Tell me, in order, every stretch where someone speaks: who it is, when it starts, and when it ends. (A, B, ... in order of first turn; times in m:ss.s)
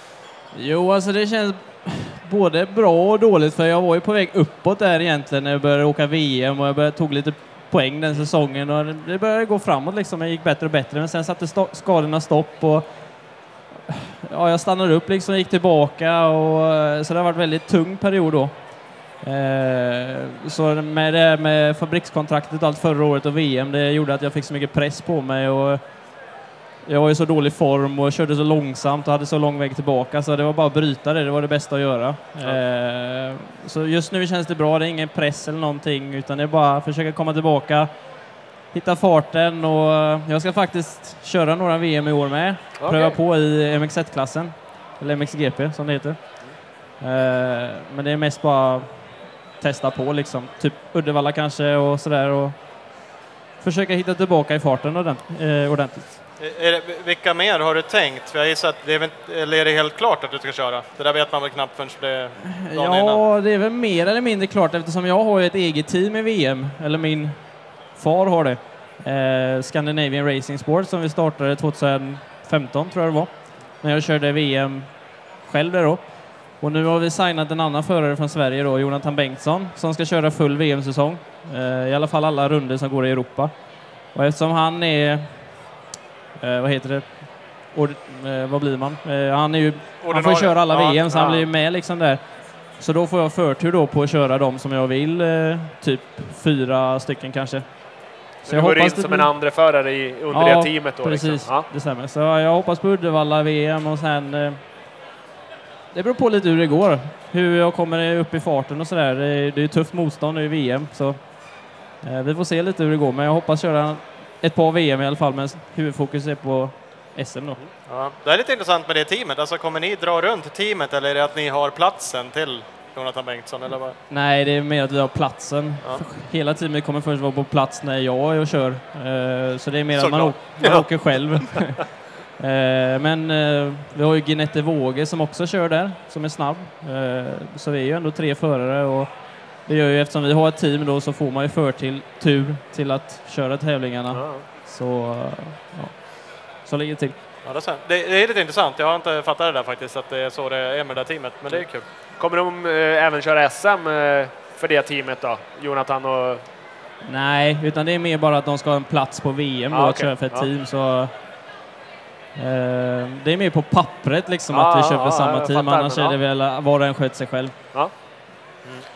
0:00.5-0:26.3 A
0:26.8-0:56.2 A
0:42.8-0:43.2 B
0:56.4-1:03.2 C
1:02.4-1:25.7 A
1:26.4-1:39.4 A
1:30.0-1:31.0 C
1:30.2-1:31.5 B
1:38.4-1:41.7 B
1:40.3-1:44.6 A
1:45.9-1:57.6 A
1:57.8-2:04.0 C
2:04.1-2:11.9 A
2:09.9-2:10.6 C
2:10.6-2:11.0 B
2:12.4-2:27.3 A
2:24.1-2:24.5 B
2:27.4-2:31.9 C
2:31.5-2:36.4 B
2:37.0-2:41.2 A
2:39.7-2:40.5 B
2:42.4-2:47.7 A
2:44.5-2:46.2 B